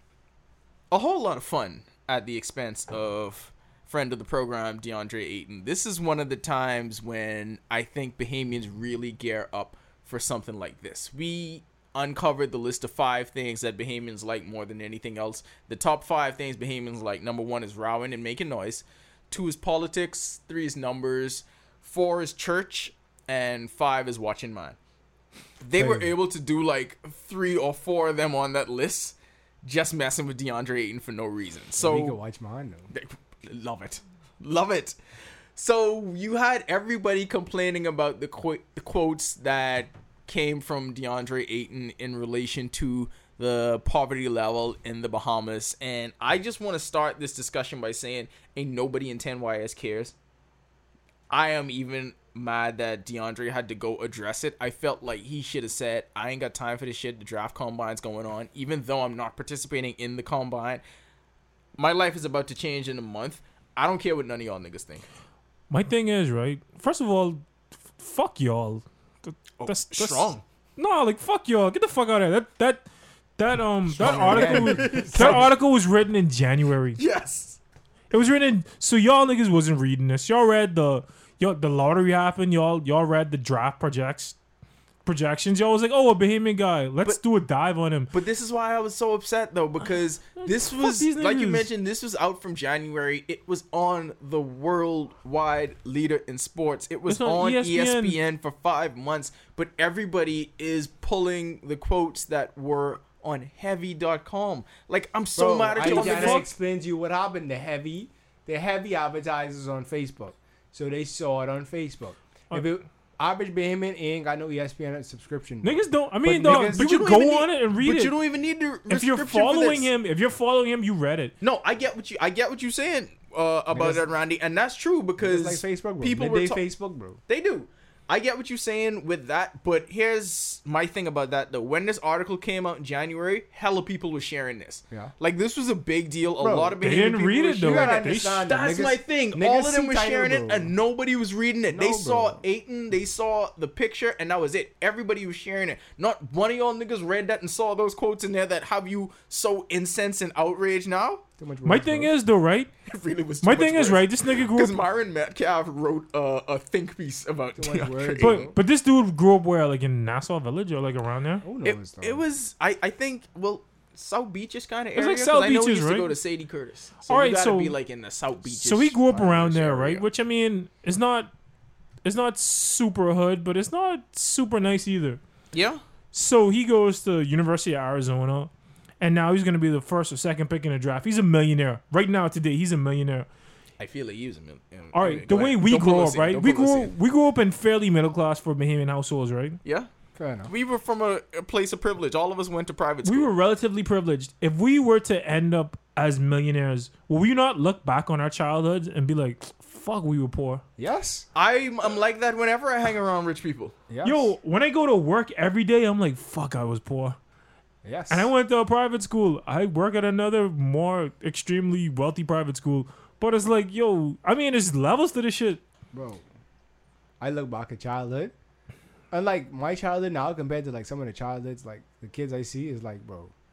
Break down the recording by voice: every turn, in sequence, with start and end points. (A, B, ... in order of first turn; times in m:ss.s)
0:00.9-0:24.8 A
0:25.6-0:32.2 A
0:25.8-0:26.1 B
0:31.8-0:32.9 B
0:32.9-0:35.0 A
0:35.6-0:50.1 A
0:51.3-1:00.8 A
1:01.8-1:05.0 A
1:05.7-1:07.4 C
1:08.0-1:12.9 C
1:09.6-1:10.4 A
1:13.4-1:17.0 C
1:13.9-1:15.5 B
1:14.0-1:15.5 A
1:17.0-1:17.6 A
1:18.1-1:24.4 C
1:25.1-1:28.1 C
1:28.1-1:46.4 A
1:30.4-1:31.7 C
1:37.1-1:38.2 C
1:45.4-1:56.9 B
1:45.8-1:46.5 C
1:55.6-1:58.2 C
1:56.4-1:59.9 A
1:58.9-2:01.3 C
2:01.4-2:06.6 A
2:03.7-2:04.0 B
2:05.2-2:07.2 B
2:07.3-2:31.2 A
2:16.4-2:20.7 B
2:16.8-2:18.5 C
2:21.7-2:22.4 B
2:31.4-2:32.1 B
2:31.6-2:32.7 C
2:32.9-2:38.5 A
2:33.4-2:34.8 C
2:37.6-2:38.6 B
2:38.2-2:41.5 C
2:41.4-2:42.2 B
2:41.6-2:50.0 A
2:45.0-2:46.2 C
2:47.1-2:47.8 C
2:48.5-2:51.3 C
2:52.0-2:55.2 C
2:55.5-2:55.8 A
2:56.1-3:03.3 C
3:03.8-3:06.9 A
3:04.9-3:09.6 C
3:10.2-3:10.5 B
3:10.5-3:13.3 A
3:13.0-3:20.6 C
3:20.8-3:21.3 B
3:21.4-3:23.8 A
3:23.9-3:24.3 B
3:24.0-3:27.2 C
3:27.8-3:28.3 B
3:28.1-3:35.6 C
3:35.9-3:36.2 B
3:37.2-3:38.3 B
3:39.1-3:43.3 B